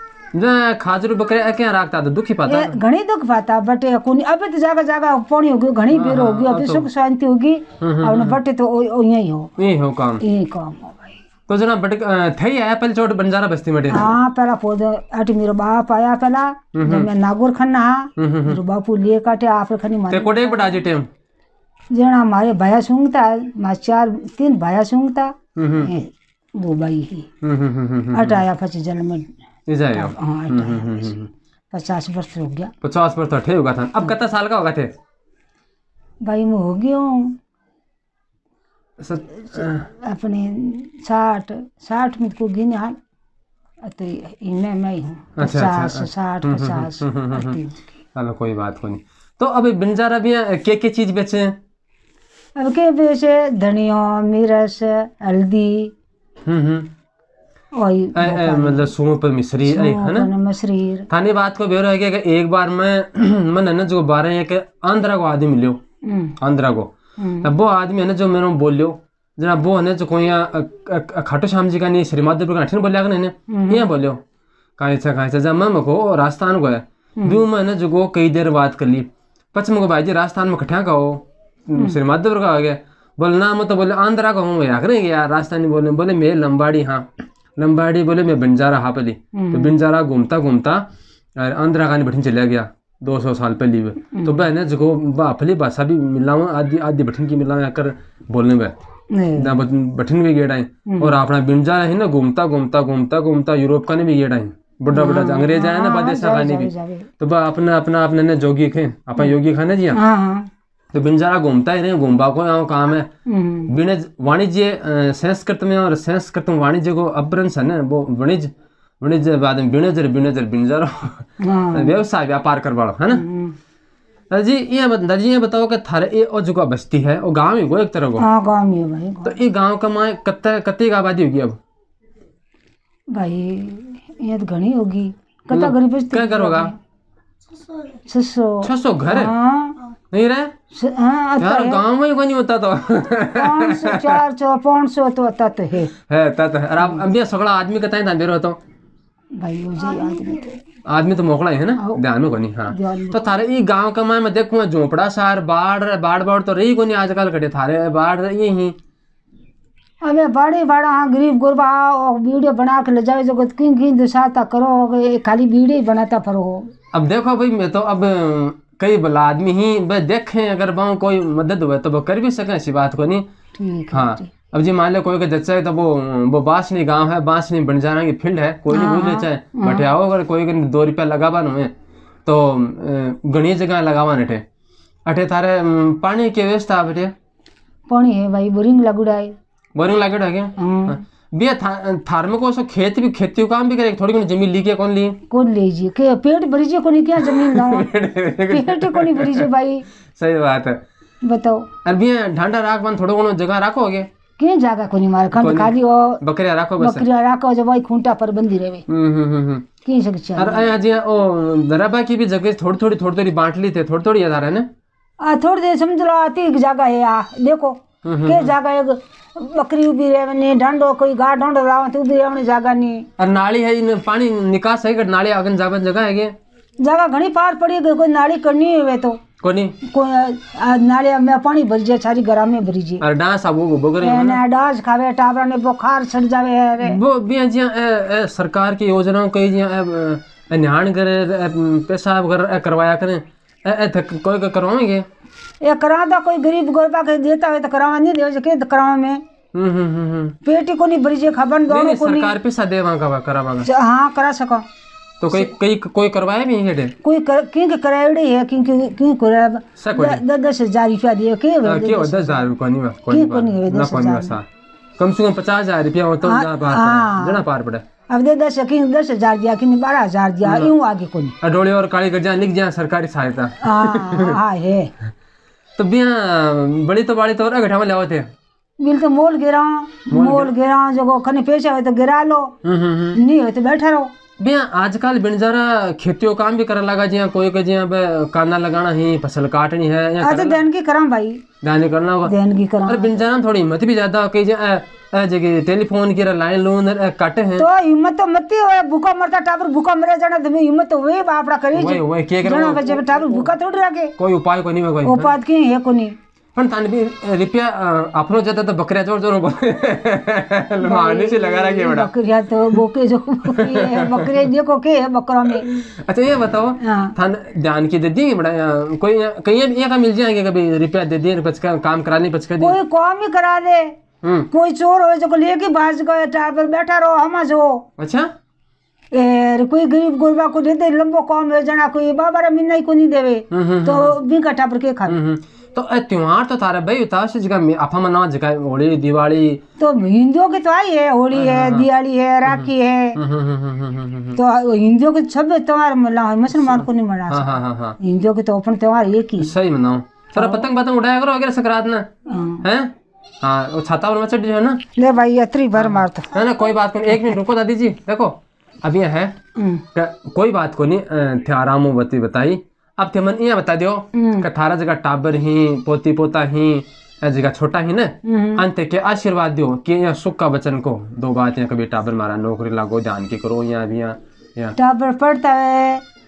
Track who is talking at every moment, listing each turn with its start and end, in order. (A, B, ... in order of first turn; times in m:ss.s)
0:00.3-0:02.8 A
0:02.5-0:09.5 B
0:05.9-0:06.9 A
0:07.8-0:08.4 A
0:09.6-0:10.2 A
0:10.2-0:11.2 B
0:11.5-0:14.2 A
0:13.9-0:20.8 B
0:16.7-0:17.1 A
0:18.2-0:18.6 A
0:20.1-0:21.1 A
0:21.9-0:27.3 B
0:25.6-0:25.9 A
0:27.4-0:28.4 A
0:28.1-0:29.3 B
0:29.7-0:31.3 A
0:29.9-0:31.2 B
0:31.7-0:32.7 B
0:32.8-0:34.9 A
0:36.2-0:37.4 B
0:39.0-0:39.9 A
0:39.5-0:43.0 B
0:43.8-0:47.9 B
0:45.4-0:47.6 A
0:48.2-0:51.6 A
0:52.6-0:55.9 B
0:56.5-0:56.9 A
0:57.8-0:58.9 B
0:58.2-1:00.3 A
0:59.6-1:01.1 B
1:01.1-1:05.8 A
1:06.0-1:06.4 B
1:06.4-1:14.2 A
1:07.2-1:07.5 B
1:13.5-1:13.9 B
1:14.8-1:30.8 A
1:29.3-1:29.7 B
1:31.4-1:38.8 A
1:34.2-1:34.4 B
1:39.1-1:39.6 B
1:39.4-1:50.0 A
1:40.9-1:41.2 B
1:44.9-1:47.1 B
1:49.9-1:50.5 B
1:50.9-1:53.1 A
1:53.3-1:53.7 B
1:53.7-2:03.2 A
2:01.4-2:02.0 B
2:03.1-2:03.6 B
2:04.3-2:08.2 A
2:08.2-2:09.4 B
2:09.2-2:11.6 A
2:13.1-2:16.8 B
2:15.5-2:16.7 A
2:18.1-2:19.8 B
2:18.6-2:19.3 A
2:20.1-2:20.5 A
2:20.7-2:21.8 B
2:21.4-2:24.2 A
2:23.3-2:25.9 B
2:26.1-2:28.6 A
2:29.4-2:30.6 B
2:30.9-2:38.8 A
2:32.7-2:33.2 B
2:40.0-2:46.7 B
2:46.9-2:53.2 A
2:53.6-2:54.3 B
2:53.9-3:01.7 A
2:58.7-2:59.9 B
3:02.3-3:04.4 A
3:05.1-3:07.1 A
3:07.9-3:09.4 B
3:09.8-3:15.2 A
3:10.6-3:11.0 B
3:15.3-3:17.9 B
3:17.2-3:19.5 A
3:18.5-3:19.9 B
3:20.2-3:20.8 A
3:21.2-3:21.7 B
3:21.8-3:24.1 A
3:24.4-3:26.2 B
3:25.4-3:27.1 A
3:26.8-3:28.8 B
3:28.9-3:29.7 A
3:29.8-3:30.7 B
3:30.4-3:34.7 A
3:35.2-3:43.1 B
3:38.0-3:38.5 A
3:43.2-3:46.4 A
3:46.8-3:49.2 B
3:49.4-3:49.8 A
3:49.8-3:53.0 B
3:53.0-3:54.4 A
3:54.0-3:57.0 B
3:56.8-4:05.1 A
4:05.6-4:09.2 B
4:09.5-4:10.4 A
4:10.4-4:12.3 B
4:11.7-4:13.7 A
4:13.6-4:14.7 B
4:15.2-4:17.0 A
4:17.0-4:22.4 B
4:19.8-4:20.2 A
4:21.6-4:24.4 A
4:23.1-4:24.4 B
4:25.0-4:27.8 A
4:26.2-4:27.4 B
4:28.1-4:31.4 B
4:30.4-4:30.7 A
4:31.4-4:34.4 A
4:33.6-4:34.9 B
4:35.8-4:38.3 A
4:38.8-4:42.6 B
4:40.1-4:40.5 A
4:42.6-4:43.2 A
4:43.1-4:44.1 B
4:44.4-4:50.6 A
4:50.2-4:51.4 B
4:51.6-4:52.3 A
4:52.2-4:53.1 B
4:52.9-4:57.7 A
4:57.6-5:04.2 B
5:01.7-5:03.5 A
5:04.2-5:05.3 A
5:05.0-5:06.2 B
5:06.6-5:12.1 A
5:10.8-5:15.7 B
5:13.5-5:14.5 A
5:15.6-5:22.8 A
5:16.8-5:17.2 B
5:22.6-5:23.9 B
5:24.2-5:24.5 A
5:24.5-5:27.8 B
5:28.0-5:28.3 A
5:29.1-5:35.2 B
5:33.5-5:34.2 A
5:35.1-5:39.6 A
5:39.8-5:43.2 B
5:41.3-5:41.9 A
5:42.5-5:44.4 A
5:44.4-5:49.5 B
5:46.6-5:48.0 A
5:49.4-5:52.1 A
5:50.4-5:50.7 B
5:52.3-5:52.6 B
5:52.6-5:54.8 A
5:55.0-5:56.4 B
5:55.8-5:59.4 A
5:59.6-5:59.8 B
5:59.9-6:14.8 A
6:04.2-6:04.5 B
6:08.2-6:08.6 B
6:14.8-6:16.0 B